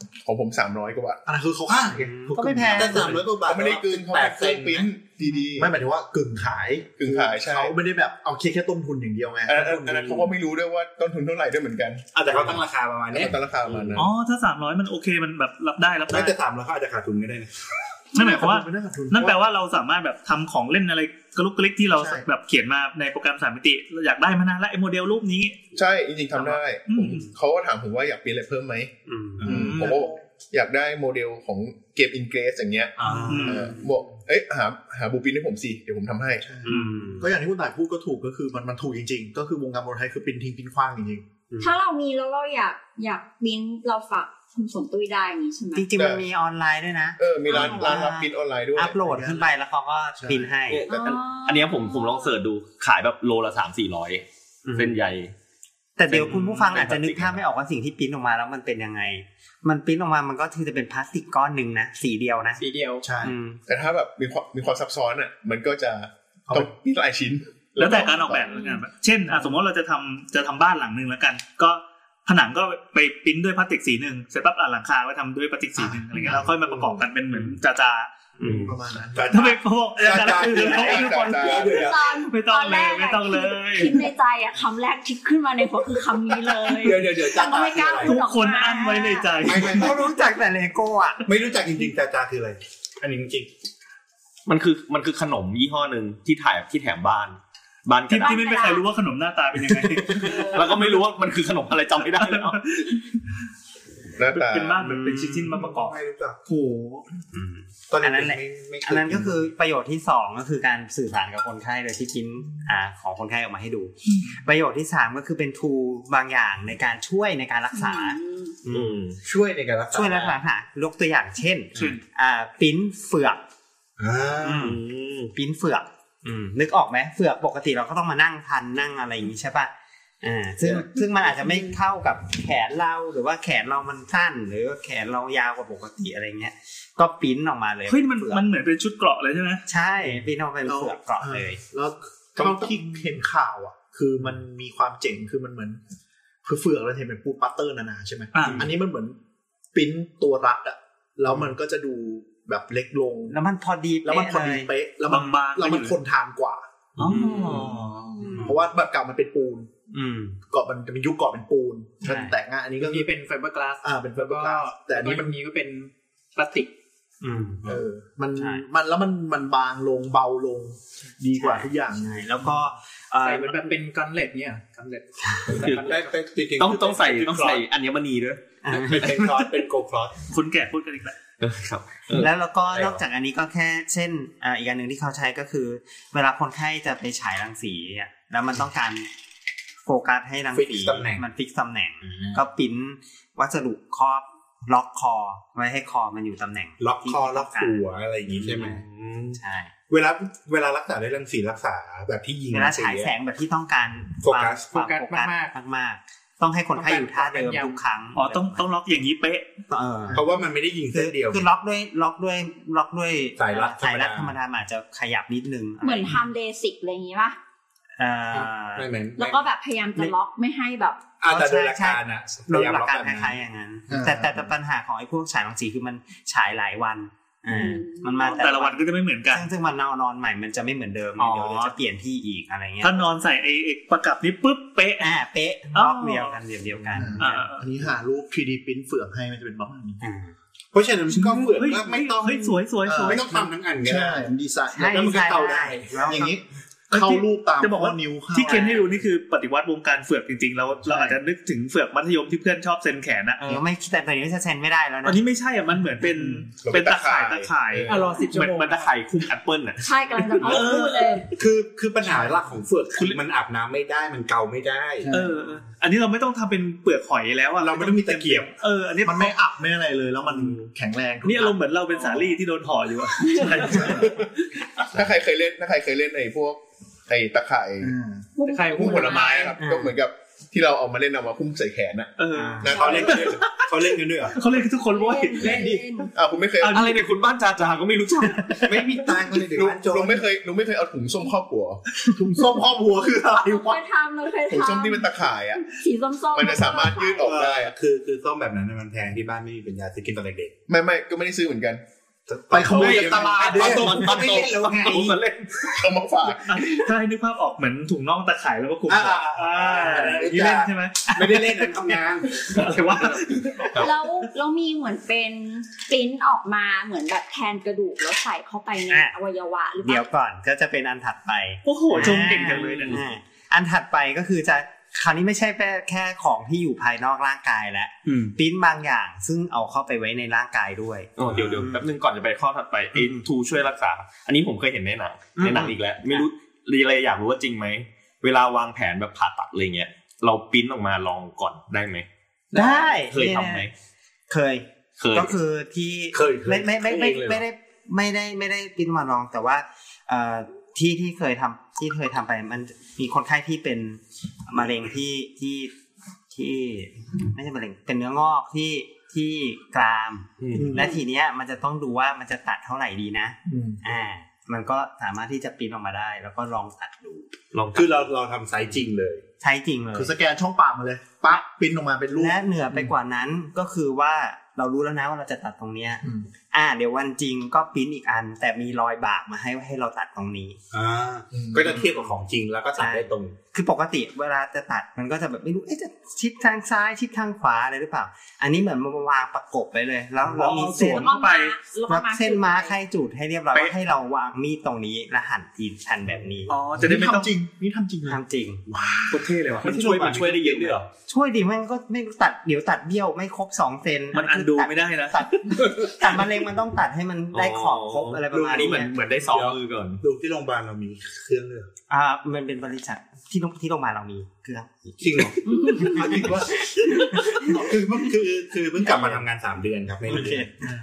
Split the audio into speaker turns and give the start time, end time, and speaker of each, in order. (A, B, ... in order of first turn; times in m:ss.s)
0:00.2-0:01.2 A
0:01.3-0:03.3 B
0:01.7-0:02.0 C
0:02.0-0:03.2 D
0:02.7-0:04.9 C
0:03.3-0:05.7 A
0:05.6-0:09.8 B
0:07.0-0:07.7 A
0:09.5-0:12.6 A
0:09.5-0:10.3 C
0:12.1-0:14.0 C
0:13.1-0:14.1 A
0:14.0-0:16.4 E
0:16.1-0:17.5 C
0:18.1-0:25.6 E
0:18.2-0:19.4 B
0:21.9-0:22.3 B
0:25.8-0:28.9 A
0:26.9-0:27.3 E
0:29.1-0:29.5 D
0:29.4-0:29.9 C
0:29.4-0:36.5 A
0:29.5-0:30.0 E
0:29.7-0:30.1 B
0:33.0-0:33.6 C
0:33.3-0:33.7 E
0:36.4-0:41.2 B
0:36.7-0:37.3 D
0:36.7-0:37.1 E
0:41.6-0:45.9 F
0:45.8-0:50.9 D
0:46.0-0:46.3 A
0:47.2-0:49.0 A
0:47.5-0:48.0 F
0:49.0-0:49.5 B
0:50.2-0:50.5 B
0:50.7-0:54.2 G
0:50.8-0:52.4 F
0:54.6-0:55.0 D
0:54.8-0:55.3 G
0:56.0-1:02.6 D
0:56.1-0:57.4 G
1:02.6-1:03.0 H
1:03.0-1:03.4 B
1:03.2-1:03.6 D
1:03.7-1:08.7 A
1:07.8-1:18.1 E
1:08.5-1:08.8 F
1:15.8-1:17.0 B
1:18.4-1:18.8 D
1:18.6-1:19.6 B
1:19.2-1:22.0 C
1:19.3-1:24.1 E
1:20.4-1:21.9 A
1:21.7-1:29.2 F
1:26.8-1:28.2 C
1:28.0-1:29.9 E
1:28.7-1:31.3 D
1:29.4-1:30.0 C
1:31.2-1:33.5 C
1:34.5-1:38.5 G
1:38.1-1:40.9 E
1:38.2-1:38.9 F
1:40.3-1:42.8 G
1:40.3-1:40.6 F
1:42.1-1:43.0 E
1:44.2-1:44.9 A
1:44.3-1:47.1 E
1:44.8-1:45.6 D
1:45.6-1:46.4 C
1:47.3-1:59.0 D
1:47.9-1:49.5 C
1:54.1-1:54.4 E
1:57.7-1:58.6 F
1:58.7-1:59.2 G
1:59.2-2:00.4 C
1:59.9-2:03.4 D
2:01.8-2:02.0 E
2:04.0-2:04.7 C
2:04.4-2:04.8 D
2:04.5-2:05.3 G
2:05.3-2:09.7 D
2:10.2-2:18.4 D
2:17.9-2:19.6 E
2:19.7-2:21.6 D
2:20.6-2:25.8 B
2:26.4-2:29.2 B
2:28.3-2:28.7 E
2:29.7-2:33.4 B
2:33.3-2:34.7 D
2:34.0-2:36.7 B
2:35.1-2:36.0 E
2:37.0-2:38.1 E
2:37.1-2:38.6 D
2:38.4-2:39.7 B
2:39.9-2:40.4 D
2:40.5-2:43.1 B
2:42.0-2:42.4 D
2:42.8-2:46.7 H
2:43.8-2:45.4 B
2:47.2-2:47.8 D
2:47.6-2:52.3 B
2:48.4-2:48.6 D
2:51.4-2:53.7 D
2:53.2-2:56.1 H
2:55.2-2:55.6 D
2:55.5-2:57.6 C
2:55.6-2:56.0 G
2:56.6-2:58.4 G
2:58.6-2:59.2 D
2:58.7-3:00.2 C
3:00.3-3:01.2 E
3:01.4-3:03.0 G
3:02.1-3:09.1 D
3:09.9-3:18.8 D
3:10.5-3:11.2 C
3:12.1-3:12.4 G
3:16.8-3:18.8 C
3:18.4-3:19.4 G
3:19.4-3:19.7 D
3:19.9-3:23.1 C
3:22.5-3:28.6 D
3:24.2-3:24.7 C
3:24.7-3:25.5 H
3:26.7-3:27.8 H
3:28.1-3:29.5 E
3:29.7-3:30.4 D
3:30.1-3:31.5 C
3:30.9-3:36.2 D
3:33.4-3:34.4 C
3:35.8-3:37.4 F
3:38.0-3:38.9 D
3:38.3-3:39.4 C
3:39.2-3:41.1 F
3:41.2-3:43.4 C
3:41.3-3:53.1 D
3:43.9-3:44.5 B
3:47.5-3:48.6 F
3:48.2-3:49.5 E
3:51.2-3:51.8 E
3:52.8-3:55.2 E
3:55.0-3:57.4 D
3:55.7-3:56.4 E
3:57.0-4:00.0 B
3:57.2-3:57.7 E
4:00.0-4:00.3 D
4:00.7-4:04.3 C
4:01.1-4:03.4 E
4:02.8-4:09.0 B
4:04.7-4:06.4 D
4:04.9-4:06.0 C
4:06.9-4:13.6 E
4:08.5-4:08.8 D
4:13.4-4:15.2 D
4:15.0-4:18.6 E
4:16.6-4:18.1 A
4:17.9-4:18.9 H
4:18.4-4:19.9 G
4:19.8-4:21.3 F
4:20.4-4:21.2 E
4:21.3-4:25.1 C
4:22.1-4:22.4 B
4:23.0-4:23.2 E
4:25.0-4:25.3 B
4:25.1-4:29.3 E
4:27.6-4:28.6 C
4:29.0-4:31.6 B
4:31.2-4:34.3 E
4:34.9-4:37.9 A
4:37.8-4:38.3 B
4:38.4-4:39.5 F
4:38.4-4:39.5 H
4:38.7-4:43.2 A
4:39.6-4:40.0 D
4:42.2-4:45.8 E
4:42.3-4:42.8 D
4:42.7-4:44.4 C
4:44.9-4:46.1 F
4:46.2-4:46.9 A
4:46.6-4:48.6 G
4:48.6-4:50.3 C
4:49.5-4:51.8 A
4:52.1-4:53.8 B
4:53.3-4:57.3 F
4:54.5-4:55.8 A
4:56.3-4:57.7 A
4:57.1-5:00.5 C
5:00.7-5:01.8 A
5:02.3-5:05.2 C
5:02.5-5:04.6 B
5:02.7-5:05.9 G
5:05.7-5:06.6 A
5:06.4-5:14.0 E
5:08.9-5:12.8 C
5:13.8-5:20.1 F
5:18.9-5:19.1 D
5:19.8-5:31.9 D
5:21.6-5:23.0 E
5:22.0-5:23.0 G
5:28.1-5:28.4 E
5:31.2-5:42.1 G
5:32.9-5:33.2 D
5:35.4-5:36.3 D
5:42.5-5:43.7 D
5:43.1-5:43.7 G
5:44.3-5:55.7 D
5:45.0-5:45.4 G
5:46.1-5:47.4 C
5:56.3-6:07.3 D
6:00.4-6:00.8 G
6:00.6-6:00.9 B
6:03.5-6:03.8 B
6:07.5-6:08.1 G
6:07.7-6:09.2 C
6:09.4-6:10.2 D
6:09.9-6:12.9 B
6:12.1-6:20.6 D
6:20.7-6:23.4 C
6:21.3-6:21.8 B
6:21.6-6:22.2 D
6:22.8-6:31.2 D
6:30.2-6:31.0 C
6:30.4-6:31.6 E
6:30.8-6:32.8 F
6:31.9-6:36.6 D
6:36.5-6:37.4 E
6:36.8-6:39.2 B
6:38.1-6:38.6 D
6:39.1-6:40.8 G
6:39.5-6:39.8 E
6:39.6-6:40.9 C
6:41.1-6:48.9 D
6:44.1-6:45.7 E
6:47.3-6:50.0 G
6:48.3-6:51.7 C
6:51.9-6:55.3 D
6:55.0-7:00.5 C
6:55.4-6:56.2 F
6:55.8-6:57.7 D
6:58.8-6:59.2 D
7:00.1-7:00.5 D